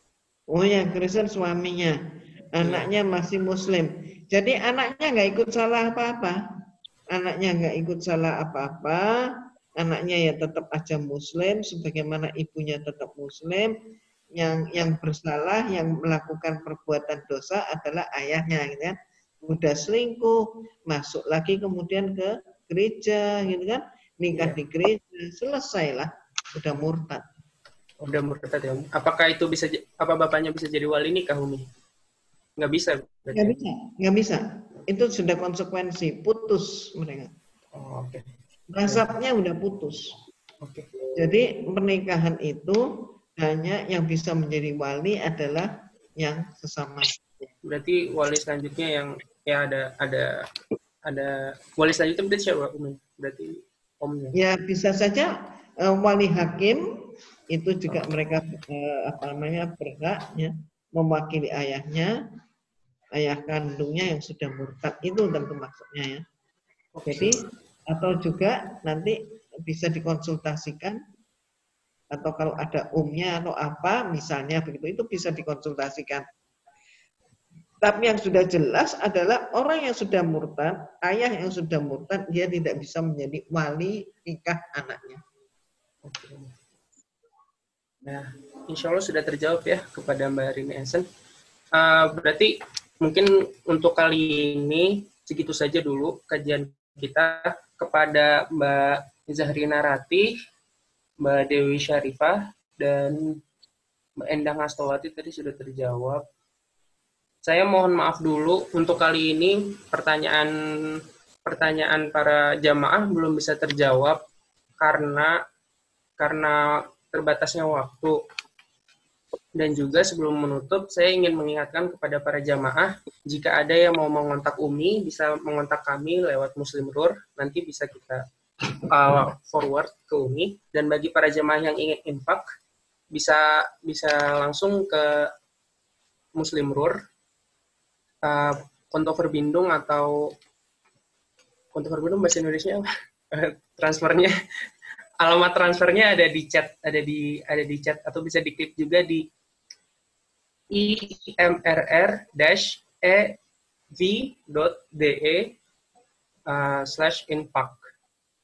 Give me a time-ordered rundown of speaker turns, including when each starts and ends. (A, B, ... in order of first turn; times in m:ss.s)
0:00.5-0:02.0 A
0:02.6-0:06.4 A
0:02.6-0:02.9 B
0:07.1-0:09.1 A
0:09.8-0:13.7 A
0:14.3-0:27.3 A
0:28.0-0:31.7 B
0:32.6-0:33.6 B
0:33.4-0:37.3 A
0:37.8-0:38.2 B
0:38.7-0:40.2 A
0:40.6-0:40.9 B
0:41.2-0:42.8 A
0:43.4-0:47.5 A
0:47.7-0:50.3 B
0:51.1-0:54.4 B
0:54.3-0:56.8 A
0:57.5-1:02.2 A
1:03.2-1:06.2 A
1:07.0-1:07.3 B
1:07.1-1:07.4 A
1:07.9-1:11.0 A
1:12.1-1:16.3 A
1:17.8-1:25.2 A
1:26.0-1:26.5 B
1:28.0-1:31.0 B
1:31.8-1:40.3 B
1:41.2-1:43.2 B
1:44.2-1:46.2 B
1:47.4-1:50.5 B
1:51.5-1:54.2 B
1:54.8-1:55.4 B
1:56.2-1:58.2 B
1:59.6-2:08.2 B
2:08.9-2:12.4 B
2:13.1-2:15.3 B
2:16.4-2:17.0 B
2:18.3-2:20.2 B
2:21.7-2:22.8 B
2:23.4-2:24.3 B
2:25.2-2:29.3 B
2:30.7-2:33.4 B
2:34.0-2:35.6 B
2:36.5-2:37.8 B